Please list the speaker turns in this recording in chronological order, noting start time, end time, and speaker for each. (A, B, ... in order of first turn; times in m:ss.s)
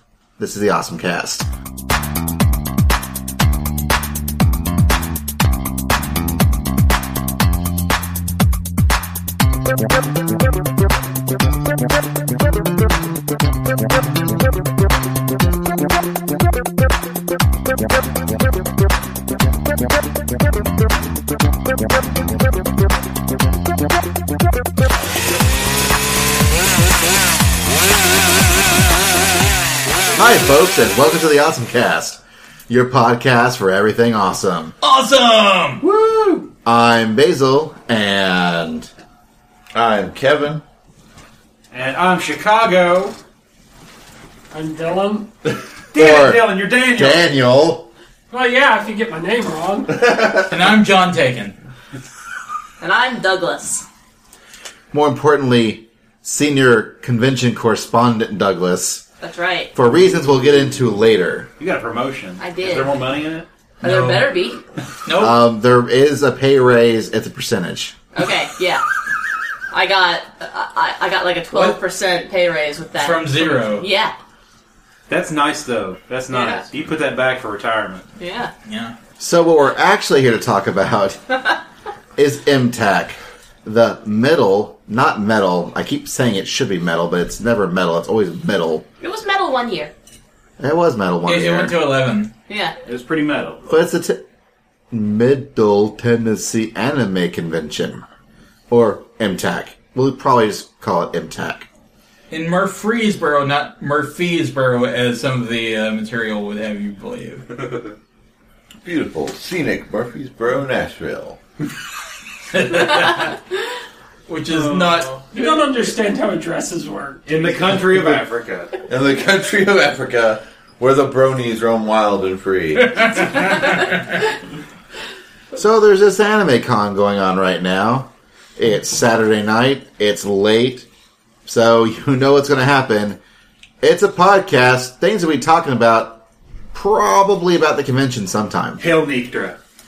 0:00.4-0:01.5 A
0:30.2-0:34.7 A
0:34.8-0:35.8 B
0:35.8-0:36.5 C
0:36.6-0:38.9 A
0:39.7-0:40.6 D
0:41.7-0:43.2 C
0:44.5-0:45.3 E
0:45.9-0:47.3 C
0:45.9-0:47.9 A
0:48.3-0:50.0 E
0:50.0-0:50.4 D
0:50.5-0:51.6 B
0:52.8-0:53.9 F
0:54.9-0:59.1 A
0:59.2-0:59.7 F
0:59.7-1:01.5 A
1:01.6-1:03.5 C
1:02.4-1:03.0 F
1:03.8-1:04.3 B
1:03.8-1:04.6 F
1:05.0-1:05.4 B
1:05.2-1:08.0 A
1:08.2-1:08.8 F
1:09.7-1:14.2 F
1:11.5-1:11.8 B
1:13.0-1:13.9 B
1:15.1-1:18.1 C
1:16.3-1:16.6 F
1:18.2-1:18.5 F
1:18.6-1:19.0 B
1:19.2-1:21.2 A
1:22.2-1:28.8 A
1:29.0-1:29.9 F
1:30.6-1:31.8 A
1:31.3-1:32.3 B
1:32.5-1:32.8 F
1:32.8-1:33.6 C
1:33.7-1:34.2 A
1:34.9-1:38.0 A
1:38.7-1:41.7 A
1:42.3-1:47.5 B
1:48.8-1:51.4 D
1:52.6-1:53.3 B
1:54.3-1:55.2 B
1:54.5-1:55.5 C
1:55.3-1:58.1 E
1:57.3-1:58.7 C
1:58.9-2:03.2 D
2:02.9-2:04.0 B
2:05.6-2:10.9 A
2:11.5-2:13.2 A
2:13.8-2:18.8 A
2:18.8-2:19.6 C